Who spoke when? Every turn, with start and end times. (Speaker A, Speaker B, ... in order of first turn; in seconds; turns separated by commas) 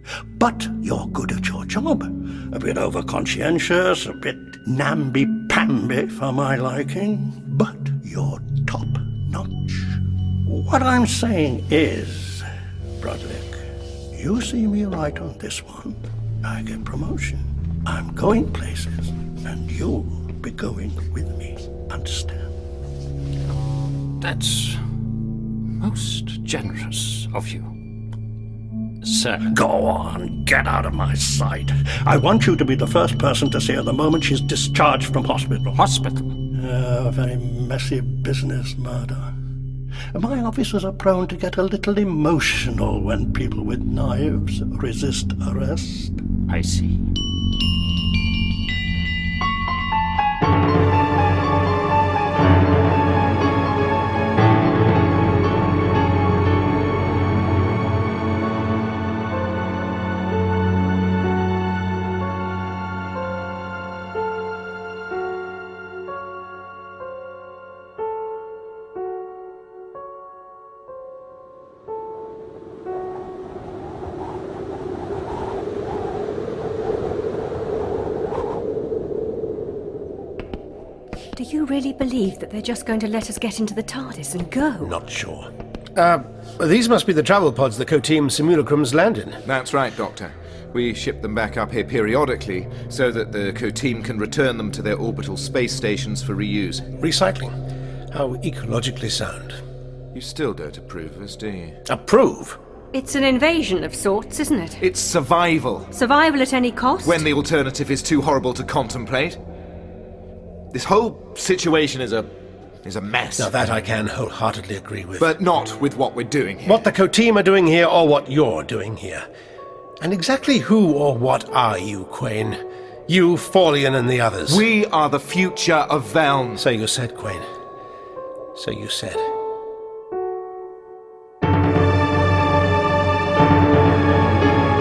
Speaker A: 0.4-12.5, Speaker A: 13.0-13.6, Speaker A: 14.1-22.5, Speaker B: 24.2-24.8, Speaker B: 25.8-27.7, Speaker B: 29.0-29.5, Speaker A: 29.5-35.8, Speaker B: 35.8-36.4, Speaker A: 36.5-39.3, Speaker A: 40.1-46.2, Speaker B: 46.5-47.0, Speaker C: 81.4-84.9, Speaker D: 84.8-89.4, Speaker E: 89.5-96.9, Speaker D: 97.0-97.5, Speaker D: 98.1-99.6, Speaker E: 100.1-101.8, Speaker D: 101.9-102.6, Speaker C: 102.9-104.8, Speaker E: 104.8-105.9, Speaker C: 105.9-107.2, Speaker E: 107.0-109.4, Speaker E: 110.7-112.3, Speaker E: 112.8-113.5, Speaker D: 113.4-115.3, Speaker E: 115.2-116.8, Speaker D: 116.7-119.3, Speaker D: 120.0-124.7, Speaker E: 124.5-126.7, Speaker D: 126.6-127.5, Speaker D: 128.6-129.2